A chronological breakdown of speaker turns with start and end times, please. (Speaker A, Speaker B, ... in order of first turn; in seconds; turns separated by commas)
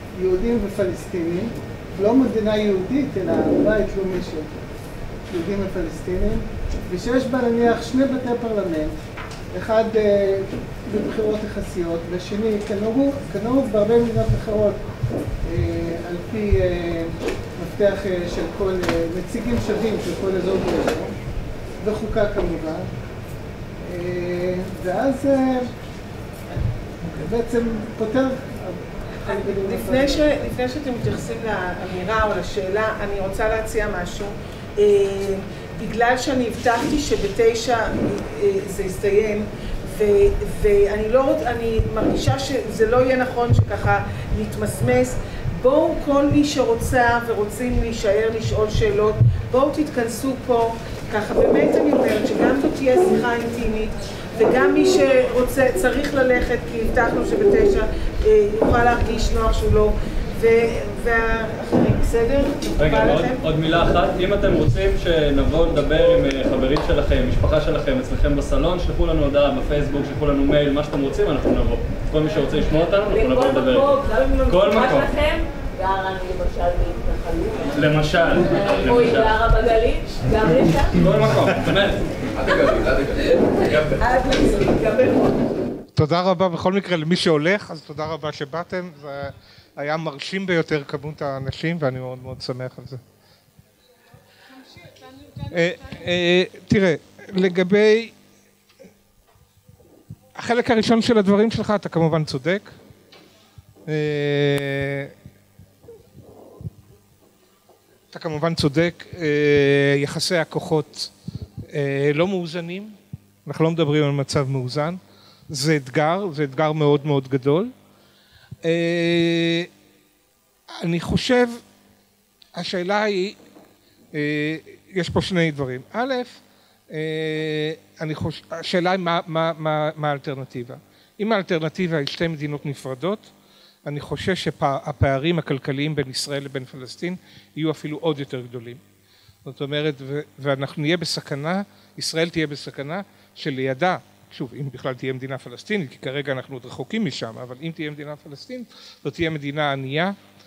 Speaker A: 0.2-4.5, Speaker A: 5.3-8.9, Speaker A: 9.5-14.8, Speaker A: 15.5-21.1, Speaker A: 21.8-22.8, Speaker A: 23.8-25.7, Speaker A: 27.0-30.3, Speaker B: 29.2-63.5, Speaker C: 62.8-74.0, Speaker D: 73.1-77.8, Speaker C: 74.5-75.1, Speaker C: 77.7-79.3, Speaker D: 78.4-81.0, Speaker C: 80.9-82.0, Speaker D: 83.8-85.4, Speaker E: 86.0-93.0, Speaker E: 95.5-98.1, Speaker E: 100.4-102.7, Speaker E: 103.9-105.1, Speaker E: 108.1-111.1, Speaker E: 111.7-113.0, Speaker E: 113.5-115.0, Speaker E: 115.5-117.7, Speaker E: 118.6-119.7, Speaker E: 120.8-121.6, Speaker E: 122.6-123.4, Speaker E: 124.2-126.4, Speaker E: 126.9-133.3, Speaker E: 133.9-138.8, Speaker E: 139.4-150.2